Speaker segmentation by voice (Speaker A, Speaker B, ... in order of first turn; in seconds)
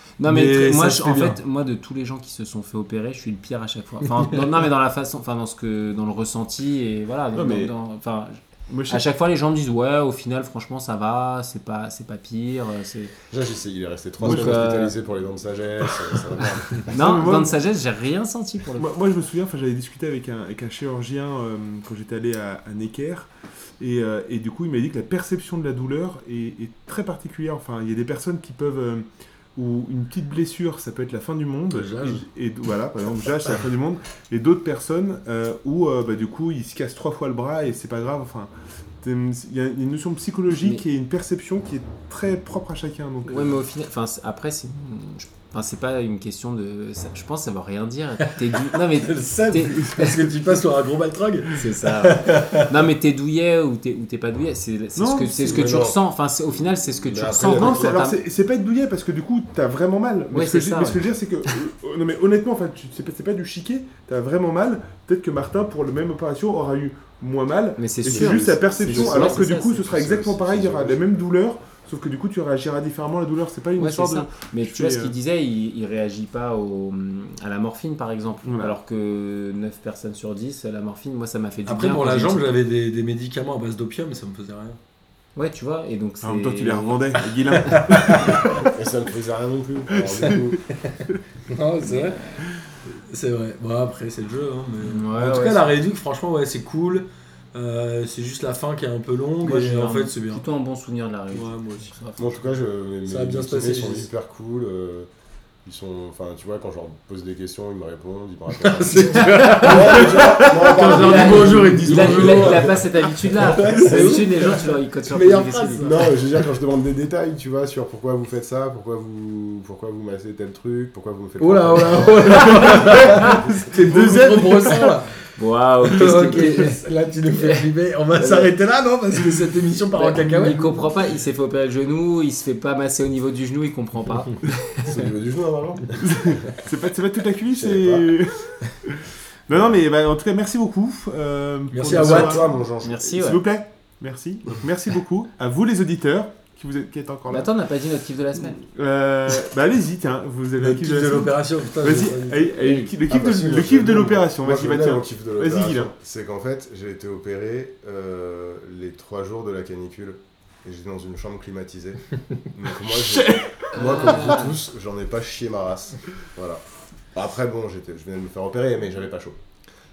Speaker A: 0.2-13.1, 14.2-14.9, 16.9-18.9, 43.3-50.3, 51.5-58.2, 60.3-61.5, 67.8-69.8, 73.8-82.5, 85.3-87.1, 91.8-92.5, 94.8-95.7, 99.4-102.4, 109.3-116.0, 125.4-126.8, 127.3-128.5, 129.9-134.5, 142.8-143.4, 147.3-148.6, 152.6-152.9, 163.8-164.6
Speaker B: 0.2-1.4, 31.7-32.2, 48.7-52.7, 81.7-84.8, 87.7-88.6, 91.0-92.2, 92.9-100.4, 101.3-101.9, 103.0-104.1, 108.6-116.2, 121.4-125.1, 125.8-130.8, 141.7-142.5, 150.6-152.8
Speaker C: 7.3-7.7, 8.7-9.0, 14.2-14.6, 16.8-17.6, 18.8-38.5, 39.0-43.6, 55.0-55.7, 57.5-75.2, 78.5-78.8, 86.2-88.7, 89.9-90.5, 109.6-110.0, 122.7-124.9, 136.0-142.5, 143.1-147.5, 148.6-155.9, 162.8-164.2
Speaker D: 13.3-16.9, 55.4-56.0, 56.5-58.0, 68.0-71.2, 88.7-90.7, 102.2-105.1, 105.7-112.8, 115.8-123.4, 134.8-136.5, 137.5-138.1, 141.9-143.2, 153.1-169.4